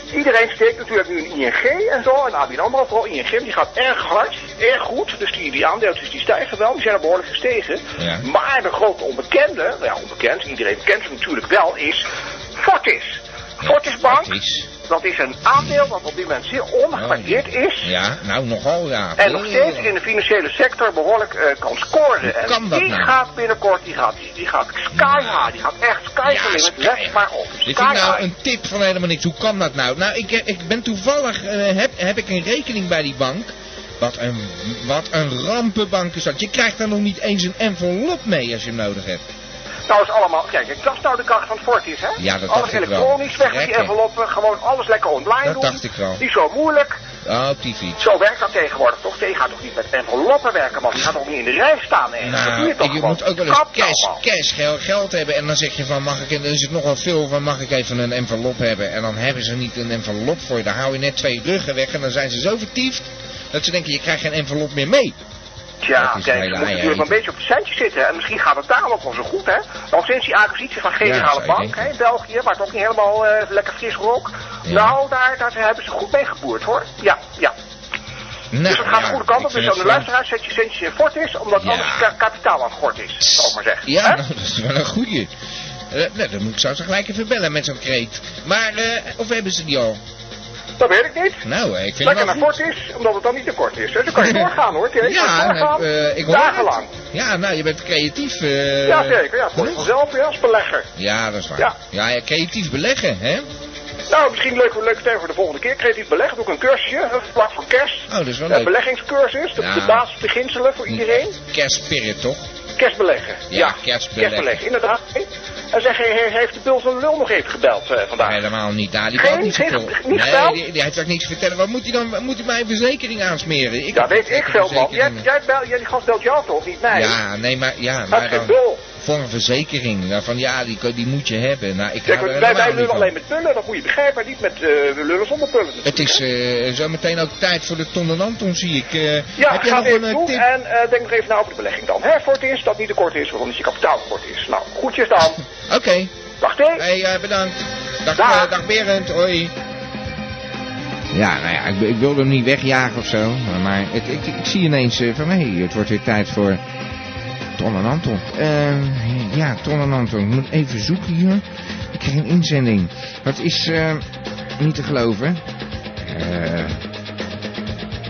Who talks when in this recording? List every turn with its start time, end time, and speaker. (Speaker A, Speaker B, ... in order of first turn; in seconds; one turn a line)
Speaker A: 0.1-12.1
Speaker B: 8.0-8.3
Speaker A: 12.6-17.9
Speaker B: 13.6-14.7
Speaker B: 15.6-15.9
Speaker B: 16.9-19.9
Speaker A: 19.2-28.2
Speaker B: 22.2-23.1
Speaker B: 24.9-25.5
Speaker B: 26.2-39.2
Speaker A: 39.9-47.0
Speaker B: 42.2-43.9
Speaker B: 45.4-46.2
Speaker B: 47.2-48.0
Speaker A: 48.0-54.2
Speaker B: 52.2-65.2
Speaker A: 65.8-77.5
Speaker B: 66.0-67.2
Speaker B: 71.0-71.9
Speaker B: 74.7-75.0
Speaker B: 78.5-80.1
Speaker A: 78.7-84.2
Speaker B: 81.6-82.1
Speaker B: 83.2-85.3
Speaker B: 85.9-90.0
Speaker A: 90.8-91.4
Speaker B: 91.4-92.5
Speaker A: 92.0-96.9
Speaker B: 94.1-99.9
Speaker A: 98.8-100.9
Speaker B: 101.0-103.5
Speaker A: 104.1-111.3
Speaker B: 108.1-108.7
Speaker B: 109.5-110.0
Speaker B: 110.9-112.5
Speaker A: 112.8-118.4
Speaker B: 113.5-114.6
Speaker B: 118.2-125.2
Speaker A: 119.2-120.6
Speaker A: 123.9-127.1
Speaker B: 126.9-133.1
Speaker A: 128.1-128.8
Speaker A: 132.1-136.2
Speaker B: 135.8-140.4
Speaker A: 139.4-145.4
Speaker B: 145.6-146.1
Speaker A: 146.4-146.8
Speaker B: 146.7-149.5
Speaker A: 148.2-148.5
Speaker B: 151.1-156.6
Speaker B: 157.6-164.0
Speaker B: 164.6-165.4
Speaker B: 166.0-166.8